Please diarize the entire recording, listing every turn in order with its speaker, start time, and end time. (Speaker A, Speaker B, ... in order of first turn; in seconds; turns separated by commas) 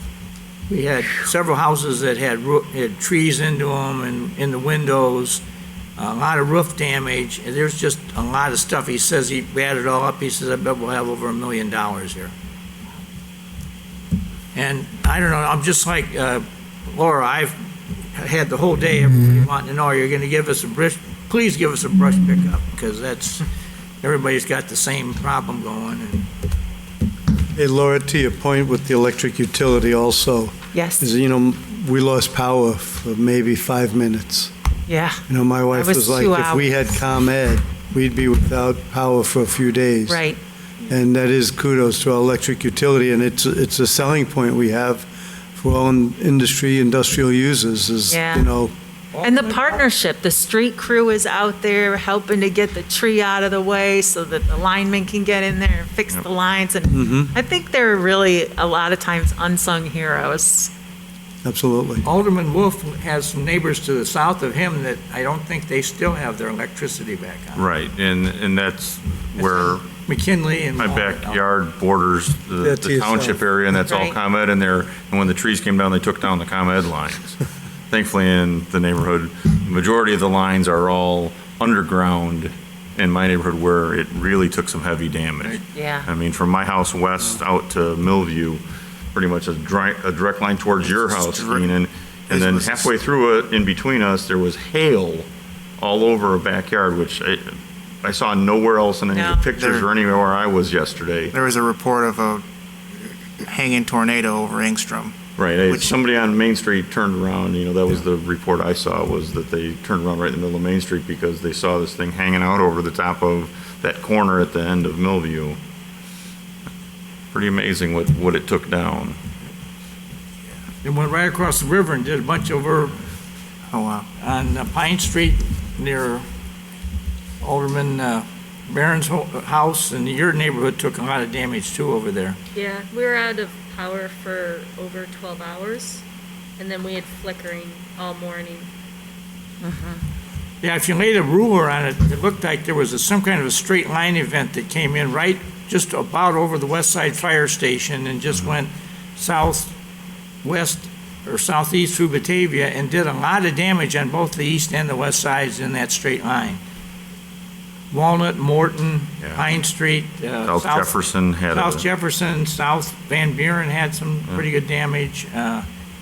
Speaker A: 0.7-5.4, Speaker A: 6.0-12.3, Speaker A: 14.5-17.6, Speaker A: 18.1-23.4, Speaker A: 24.0-26.3, Speaker B: 27.6-34.5, Speaker C: 30.7-31.1, Speaker C: 34.9-37.0, Speaker B: 35.3-40.3, Speaker C: 40.1-40.4, Speaker B: 40.9-48.7, Speaker C: 48.1-48.5, Speaker A: 49.1-49.8, Speaker C: 49.2-60.7, Speaker B: 56.9-57.3, Speaker B: 61.4-62.0, Speaker A: 62.0-67.7, Speaker D: 67.6-69.9, Speaker A: 69.4-71.4, Speaker D: 70.8-77.4, Speaker B: 72.6-73.4, Speaker C: 73.8-74.2, Speaker D: 77.9-88.6, Speaker C: 85.7-86.1, Speaker D: 89.1-95.3, Speaker E: 90.8-91.8, Speaker E: 92.3-93.0, Speaker D: 95.8-101.3, Speaker C: 99.1-99.5, Speaker E: 99.6-99.9, Speaker E: 101.3-102.4, Speaker E: 103.5-105.2, Speaker D: 105.4-115.6, Speaker E: 105.7-106.0, Speaker D: 117.3-119.2, Speaker A: 120.8-123.0, Speaker E: 123.7-124.1, Speaker A: 124.2-126.2, Speaker A: 127.4-132.4, Speaker F: 132.6-136.0, Speaker F: 136.6-138.7, Speaker C: 139.6-140.0, Speaker A: 140.6-149.8, Speaker A: 150.4-156.6, Speaker A: 157.9-165.7, Speaker D: 160.4-161.8